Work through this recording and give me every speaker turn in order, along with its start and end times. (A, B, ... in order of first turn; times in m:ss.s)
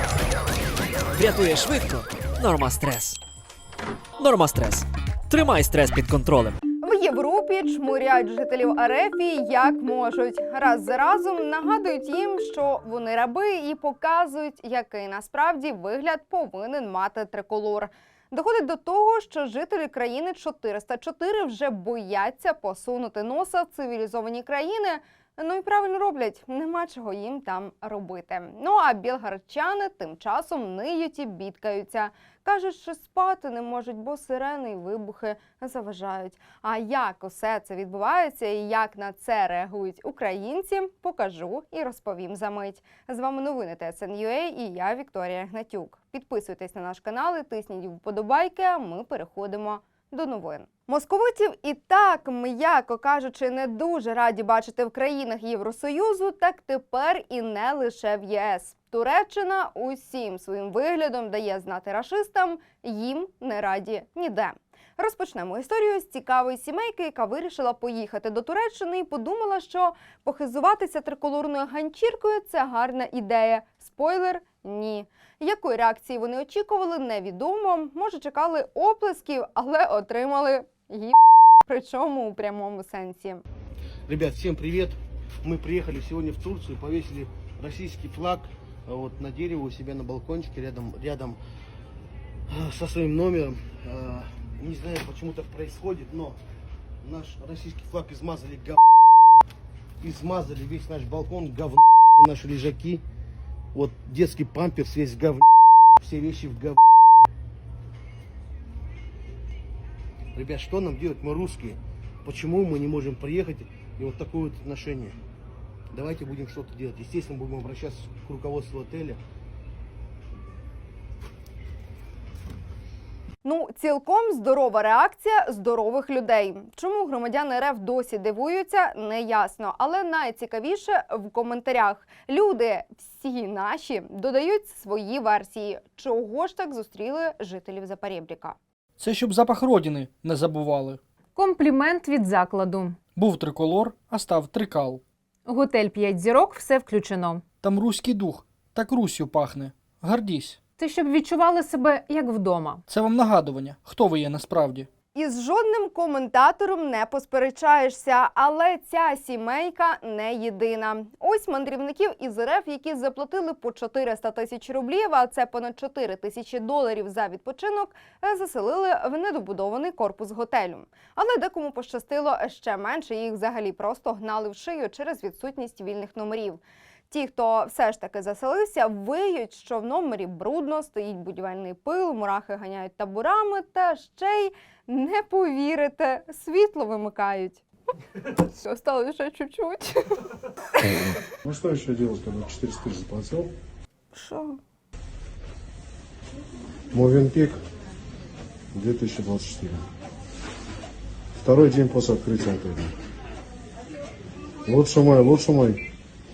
0:01.2-0:03.2 A
0:04.2-0:06.6 A
0:06.8-1:23.4 B
1:24.1-1:31.4 C
1:32.5-1:36.4 C
1:37.0-1:38.8 C
1:40.0-1:43.0 C
1:43.7-1:45.5 C
1:46.0-1:46.8 C
1:50.4-1:55.2 C
1:55.9-1:59.2 C
2:03.4-2:18.6 B
2:19.0-2:21.0 D
2:21.4-2:23.0 E
2:23.2-2:25.0 D
2:25.5-2:27.4 E
2:27.6-2:30.6 D
2:30.8-2:32.8 E
2:32.9-2:34.9 D
2:35.1-3:07.6 B
3:08.4-3:10.2 B
3:11.4-3:13.5 F
3:14.2-3:14.6 B
3:16.9-3:17.6 F
3:18.8-3:19.8 F
3:21.4-3:22.9 F
3:24.7-3:25.8 F